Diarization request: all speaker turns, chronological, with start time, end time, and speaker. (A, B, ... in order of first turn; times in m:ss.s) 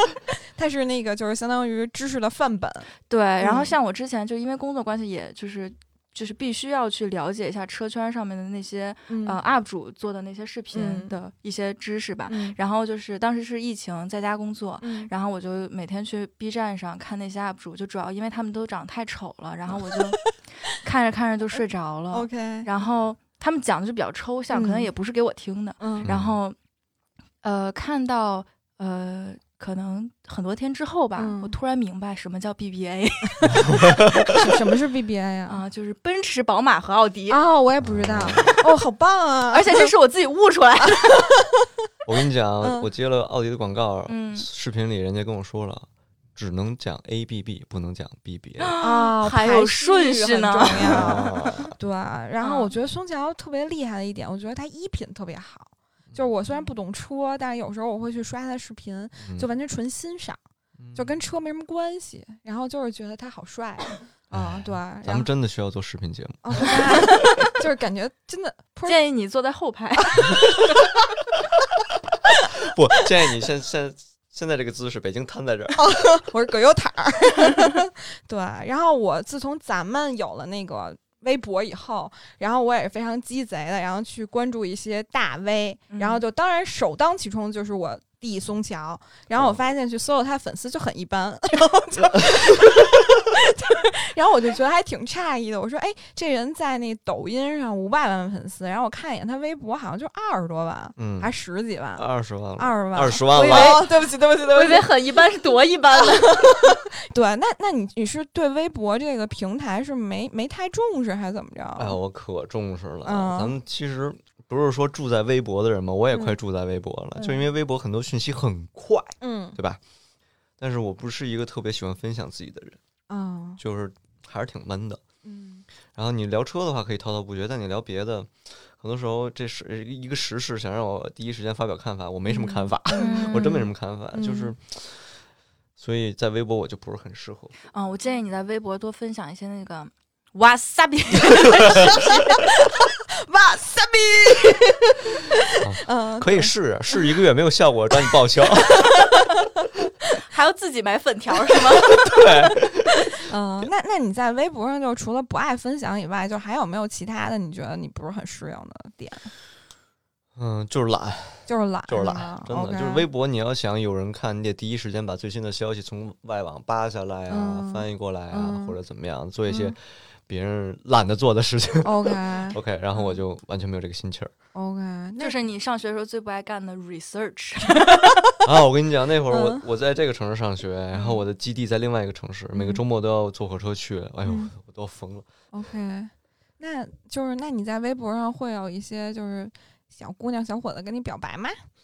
0:00.6-0:02.9 A
0:03.1-0:26.6 B
0:03.4-0:03.7 A
0:09.1-0:09.4 A
0:10.7-0:11.1 A
0:12.3-0:12.6 A
0:14.8-0:15.1 A
0:19.9-0:20.2 A
0:22.1-0:22.7 A
0:24.5-0:24.9 A
0:25.8-0:26.1 A
0:26.0-0:26.4 C
0:27.4-0:33.8 B
0:31.2-0:31.5 A
0:33.5-0:34.3 C
0:34.3-0:35.6 A
0:35.5-0:37.4 B
0:37.3-0:39.9 A
0:37.8-0:38.5 C
0:39.5-0:41.3 B
0:41.0-0:41.6 A
0:42.0-0:48.7 C
0:42.6-0:42.9 A
0:44.1-0:44.5 B
0:48.6-0:51.3 B
0:48.8-1:00.4 A
0:50.7-0:51.7 C
0:52.4-0:52.7 B
0:59.2-0:59.5 C
1:00.8-1:01.1 C
1:00.9-1:05.3 A
1:04.3-1:07.1 C
1:06.4-1:09.0 A
1:08.8-1:10.5 B
1:10.1-1:10.7 A
1:12.6-1:15.8 C
1:15.8-1:42.0 A
1:25.9-1:26.2 B
1:29.3-1:29.6 C
1:41.0-1:41.3 C
1:42.0-1:43.8 C
1:42.6-1:44.9 A
1:43.3-1:46.8 B
1:46.2-1:52.0 A
1:51.8-1:59.8 C
1:53.0-1:53.6 A
1:57.2-1:57.4 A
1:59.2-1:59.6 A
2:00.6-2:02.8 C
2:03.1-2:03.6 A
2:03.6-2:05.0 C
2:05.2-2:05.6 A
2:05.9-2:15.2 C
2:12.3-2:13.6 A
2:12.9-2:13.7 B
2:14.1-2:14.5 A
2:15.8-2:17.5 C
2:17.7-2:22.4 B
2:21.6-2:22.0 C
2:22.3-2:26.5 A
2:25.6-2:29.0 C
2:28.8-2:29.2 A
2:30.3-2:32.0 B
2:32.0-2:33.1 C
2:33.2-2:39.3 A
2:40.4-2:54.3 C
2:41.5-2:43.0 A
2:47.3-2:48.8 A
2:49.5-2:49.7 A
2:51.8-2:52.6 A
2:54.5-2:55.3 A
2:55.2-2:58.1 B
2:58.4-3:05.2 C
2:59.3-2:59.6 A
3:02.5-3:02.8 A
3:04.2-3:04.5 A
3:05.5-3:11.6 A